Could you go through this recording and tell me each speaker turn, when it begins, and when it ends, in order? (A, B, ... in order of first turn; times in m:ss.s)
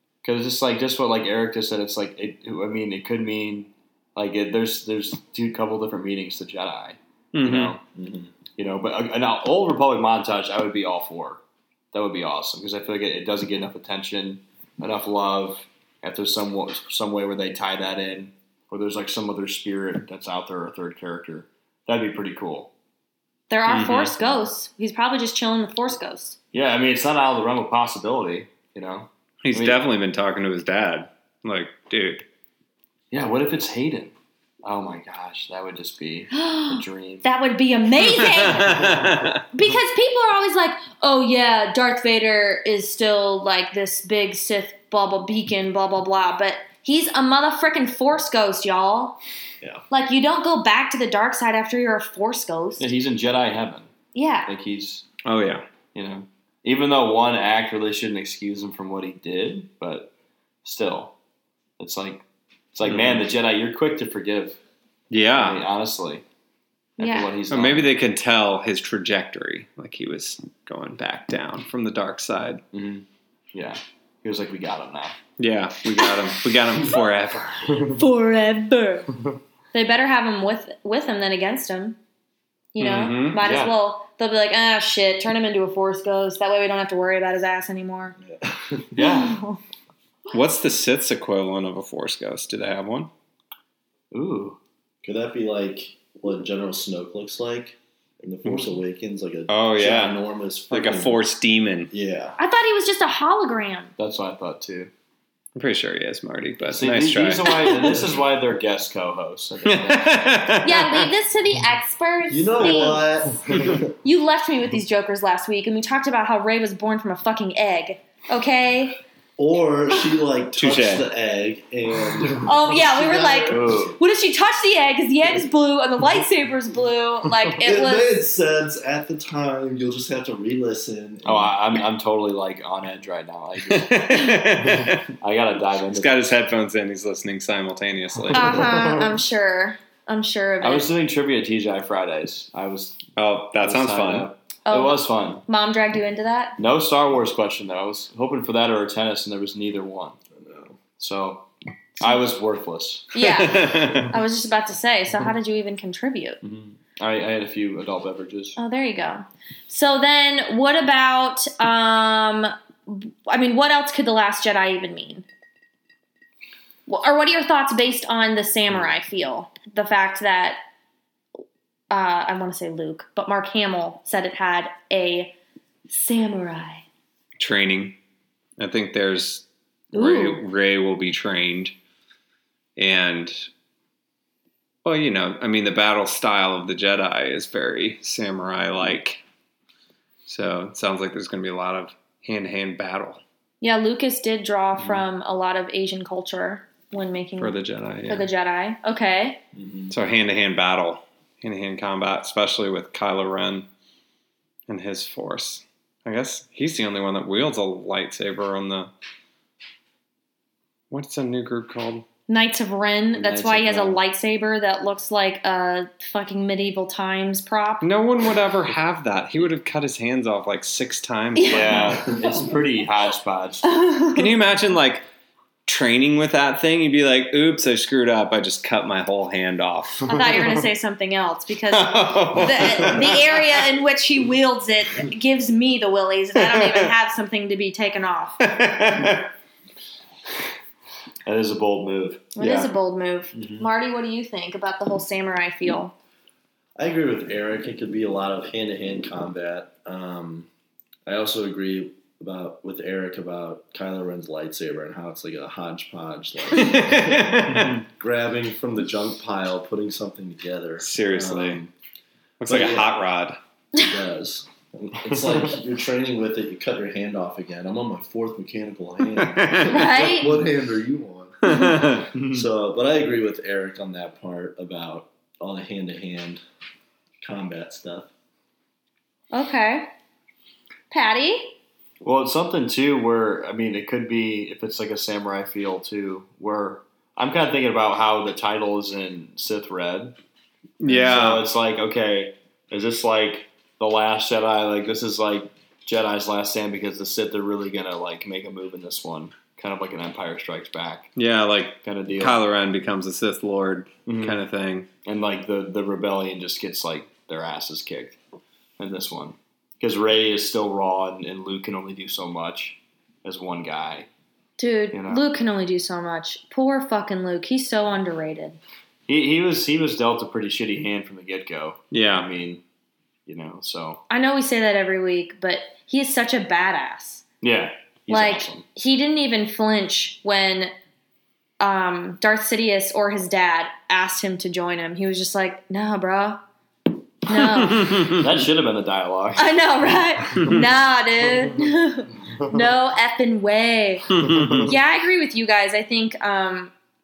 0:00.2-0:07.8 A
0:07.3-0:07.8 B
0:07.9-0:08.3 C
0:08.6-0:11.4 A
0:11.9-0:22.7 A
0:23.5-0:26.4 D
0:23.6-0:24.3 B
0:26.5-0:29.8 A
0:29.4-0:32.2 B
0:33.1-0:37.2 A
0:36.3-0:38.8 D
0:38.0-0:39.4 B
0:39.5-0:49.2 D
0:49.9-0:52.9 D
0:52.8-0:53.9 A
0:54.1-0:54.5 D
0:54.4-0:55.0 A
0:55.2-0:55.6 B
0:55.9-1:00.1 A
1:00.6-1:01.1 A
1:01.8-1:04.6 A
1:02.8-1:03.2 B
1:05.1-1:05.6 B
1:05.3-1:06.2 A
1:07.0-1:07.3 D
1:07.0-1:07.9 A
1:07.5-1:12.6 B
1:12.7-1:15.2 A
1:15.4-1:17.8 B
1:18.0-1:19.1 D
1:19.7-1:22.0 D
1:22.7-1:28.2 D
1:22.8-1:23.4 B
1:23.4-1:23.7 A
1:28.2-1:28.9 C
1:28.9-1:29.4 A
1:29.0-1:29.6 D
1:30.3-1:33.1 B
1:34.1-1:34.6 A
1:35.0-1:41.2 C
1:39.5-1:41.9 B
1:41.9-1:42.4 C
1:42.4-1:43.9 D
1:44.0-1:44.9 A
1:45.6-1:47.8 B
1:46.6-1:50.5 A
1:47.5-1:47.9 D
1:49.6-1:51.1 B
1:50.6-1:53.3 D
1:52.3-1:53.9 C
1:52.6-1:53.8 A
1:54.0-1:59.0 D
1:59.4-2:04.0 C
2:00.6-2:01.0 B
2:02.4-2:08.2 D
2:03.5-2:04.0 A
2:07.6-2:11.5 C
2:11.2-2:16.3 A
2:13.6-2:15.1 B
2:15.9-2:18.7 B
2:18.3-2:19.1 A
2:18.3-2:20.9 D
2:20.6-2:23.0 A
2:23.2-2:24.3 B
2:23.6-2:25.4 A
2:24.6-2:26.6 D
2:26.6-2:30.2 A
2:30.3-2:30.8 C
2:31.0-2:31.5 A
2:32.0-2:33.2 A
2:33.1-2:36.4 D
2:33.2-2:34.1 B
2:36.4-2:38.6 A
2:38.6-2:45.2 D
2:46.9-2:50.6 D
2:51.9-2:55.3 D
2:55.9-2:56.8 D
2:57.4-2:58.0 B
2:58.6-3:01.7 B
2:59.9-3:00.4 D
3:02.8-3:03.5 B
3:04.8-3:09.2 B
3:10.2-3:13.2 B
3:13.6-3:19.4 D
3:17.4-3:18.3 B
3:19.5-3:19.9 C
3:19.9-3:23.7 B
3:24.7-3:28.9 B
3:30.9-3:32.0 B
3:32.3-3:37.9 D
3:33.2-3:33.9 C
3:37.8-3:42.1 B
3:41.4-3:42.5 D
3:41.5-3:43.7 A
3:43.6-3:44.4 D
3:44.1-3:45.0 B
3:45.6-3:50.1 B
3:50.1-3:58.4 D
3:51.9-3:53.2 B
3:52.0-3:53.1 A
3:56.4-3:56.9 B
3:58.4-3:59.3 B
4:01.2-4:02.7 A
4:02.4-4:05.9 D
4:03.3-4:03.6 A
4:06.8-4:10.5 C
4:11.0-4:21.7 C
4:16.5-4:17.8 B
4:17.5-4:17.8 A
4:20.8-4:21.6 B
4:22.4-4:23.4 B
4:22.5-4:22.9 C
4:23.8-4:36.4 C
4:29.2-4:29.9 B
4:29.6-4:30.4 D
4:31.4-4:32.1 B
4:31.4-4:31.8 D
4:32.1-4:32.4 A
4:37.2-4:38.1 C
4:39.3-4:39.9 D
4:40.9-4:41.6 D
4:42.0-4:50.2 A
4:50.8-4:51.5 B
4:50.9-4:51.2 D
4:51.0-5:01.1 A
5:01.2-5:04.9 B
5:01.8-5:02.4 A
5:04.0-5:04.4 A
5:05.0-5:08.2 A
5:08.8-5:14.1 A
5:14.6-5:18.6 D
5:14.9-5:15.2 A
5:19.1-5:22.6 A
5:21.9-5:22.3 B
5:23.3-5:24.0 A
5:24.1-5:27.2 D
5:27.4-5:28.6 A
5:28.1-5:30.7 D
5:31.6-5:36.4 D
5:37.2-5:38.1 D
5:37.3-5:38.3 B
5:38.0-5:39.6 A
5:39.4-5:44.1 D
5:40.3-5:40.6 A
5:44.1-5:44.7 B
5:44.2-5:44.7 A
5:44.6-5:46.7 D